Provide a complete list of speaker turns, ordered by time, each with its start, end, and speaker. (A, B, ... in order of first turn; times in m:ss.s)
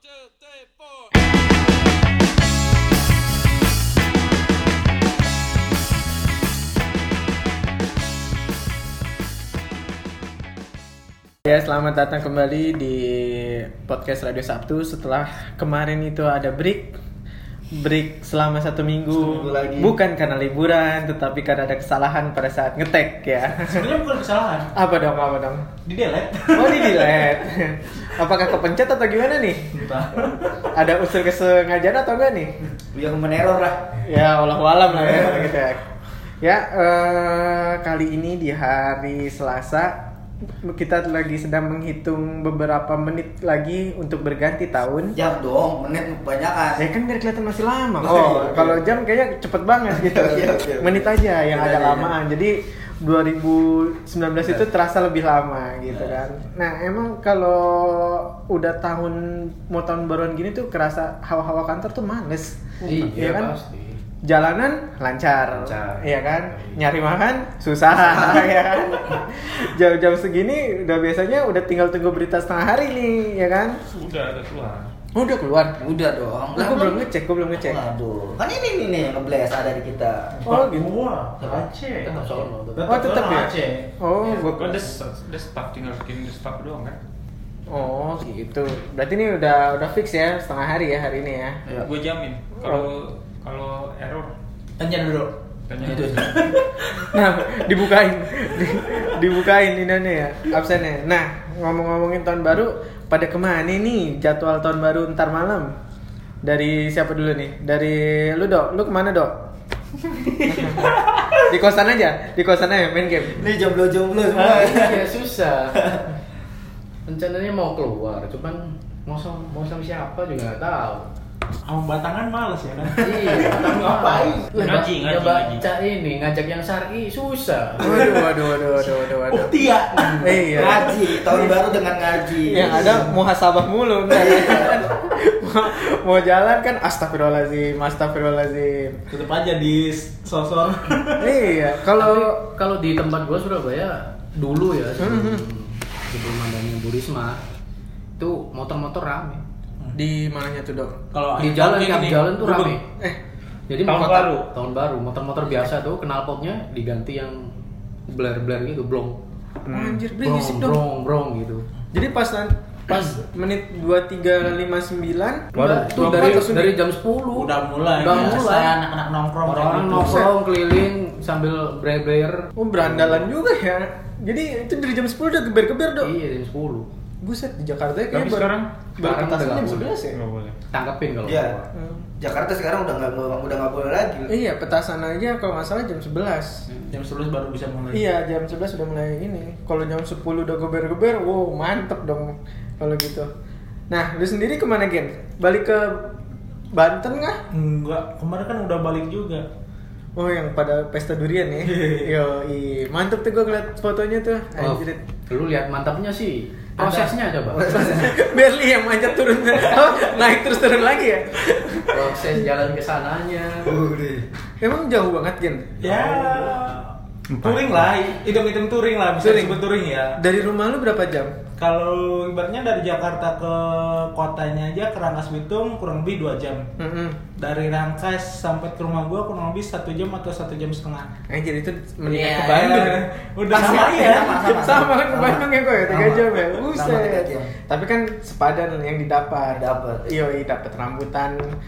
0:11.4-0:17.0 A
0:17.7-0:23.9 A
0:19.1-0:19.9 B
0:23.6-0:24.7 C
0:24.8-0:25.7 A
0:25.8-0:27.3 C
0:26.5-0:29.8 A
0:29.8-0:30.3 B
0:30.7-0:32.6 A
0:32.9-0:34.0 B
0:34.0-0:35.8 A
0:35.0-0:35.5 C
0:36.4-0:40.0 A
0:40.6-0:45.2 A
0:45.2-0:46.8 B
0:46.8-1:03.5 A
0:48.0-0:48.8 B
0:49.9-0:52.1 B
1:02.8-1:04.0 D
1:04.2-1:13.8 A
1:05.5-1:06.8 D
1:08.0-1:08.5 B
1:13.9-1:14.9 E
1:15.2-1:15.8 A
1:15.8-1:17.0 B
1:16.6-1:17.8 A
1:17.6-1:20.4 B
1:20.4-1:23.9 C
1:20.5-1:20.9 A
1:21.4-1:21.6 B
1:22.0-1:23.2 D
1:22.9-1:24.9 A
1:24.2-1:27.0 E
1:27.7-1:31.6 A
1:31.8-1:34.3 E
1:32.6-1:32.9 A
1:34.8-1:37.6 C
1:35.7-1:36.3 E
1:35.9-1:36.3 B
1:37.0-1:45.8 A
1:46.4-1:49.4 A
1:50.2-1:51.4 C
1:50.5-1:53.5 A
1:53.3-1:55.1 B
1:54.3-1:54.8 A
1:54.4-1:55.8 D
1:57.1-2:01.1 D
2:01.6-2:04.5 C
2:03.0-2:08.2 D
2:04.6-2:05.6 E
2:07.8-2:09.6 A
2:09.2-2:11.6 C
2:10.2-2:11.0 A
2:10.4-2:13.1 B
2:12.5-2:19.0 A
2:14.1-2:14.9 B
2:19.1-2:21.4 C
2:21.2-2:22.4 A
2:22.0-2:27.4 D
2:25.0-2:25.5 A
2:28.2-2:29.4 D
2:29.9-2:31.0 A
2:31.1-2:32.8 C
2:31.4-2:32.8 D
2:33.7-2:37.5 D
2:33.8-2:34.5 E
2:38.1-2:39.2 D
2:39.7-2:40.0 E
2:39.7-2:40.8 A
2:40.2-2:41.7 D
2:41.9-2:46.8 A
2:45.6-2:48.8 D
2:46.0-2:46.3 C
2:47.3-2:50.3 C
2:49.4-2:53.3 D
2:49.9-2:50.3 A
2:52.6-2:56.1 A
2:56.0-2:56.9 D
2:57.2-3:00.2 A
2:58.1-2:58.7 E
2:59.0-3:00.0 D
3:00.1-3:00.6 E
3:00.7-3:01.7 D
3:01.2-3:01.6 B
3:01.7-3:02.1 A
3:02.2-3:04.3 B
3:04.3-3:06.6 A
3:06.7-3:08.1 C
3:07.9-3:13.3 A
3:13.9-3:17.4 A
3:17.5-3:19.5 C
3:20.2-3:25.0 A
3:21.6-3:22.1 C
3:24.6-3:28.1 D
3:26.8-3:27.1 C
3:27.6-3:28.1 B
3:27.6-3:32.3 A
3:31.9-3:33.8 D
3:33.6-3:34.3 B
3:34.6-3:36.5 A
3:35.8-3:40.2 C
3:37.3-3:37.9 E
3:39.2-3:39.6 A
3:40.2-3:41.3 A
3:41.6-3:46.7 C
3:46.8-3:47.2 A
3:47.4-3:51.1 C
3:51.3-4:01.6 A
3:52.1-3:54.4 C
3:52.5-3:53.0 B
3:53.5-3:57.5 B
3:59.5-4:00.1 B